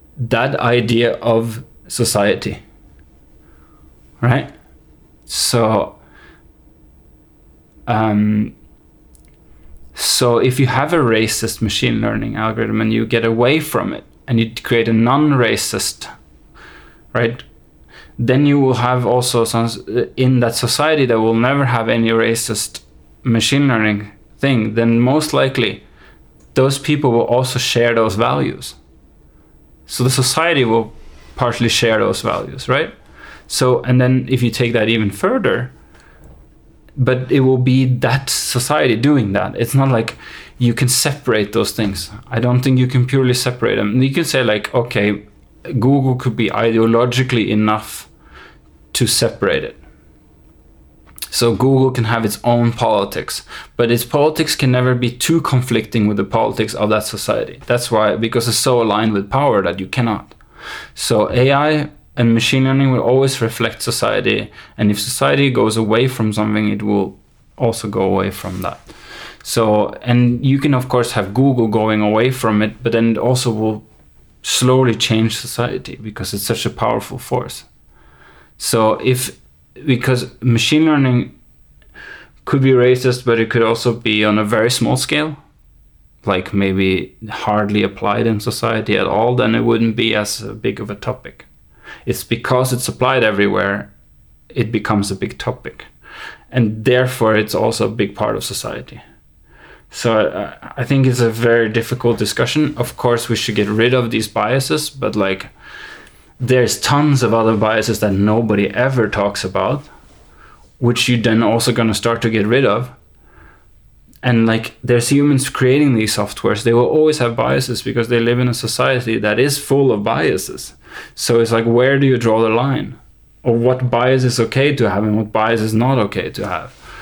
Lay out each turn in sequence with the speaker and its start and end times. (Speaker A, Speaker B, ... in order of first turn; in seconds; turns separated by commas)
Speaker A: 0.2-2.6, Speaker A: 4.2-4.5, Speaker A: 5.3-6.0, Speaker A: 7.9-8.5, Speaker A: 9.9-16.1, Speaker A: 17.1-17.4, Speaker A: 18.2-25.8, Speaker A: 26.5-28.8, Speaker A: 29.9-33.0, Speaker A: 33.5-35.7, Speaker A: 37.0-48.1, Speaker A: 48.9-49.8, Speaker A: 51.3-60.4, Speaker A: 60.9-73.8, Speaker A: 74.4-77.7, Speaker A: 78.6-81.3, Speaker A: 82.4-85.4, Speaker A: 86.2-91.5, Speaker A: 92.0-93.9, Speaker A: 94.5-95.9, Speaker A: 96.5-99.0, Speaker A: 99.9-105.5, Speaker A: 106.4-109.9, Speaker A: 110.8-112.9, Speaker A: 114.2-126.8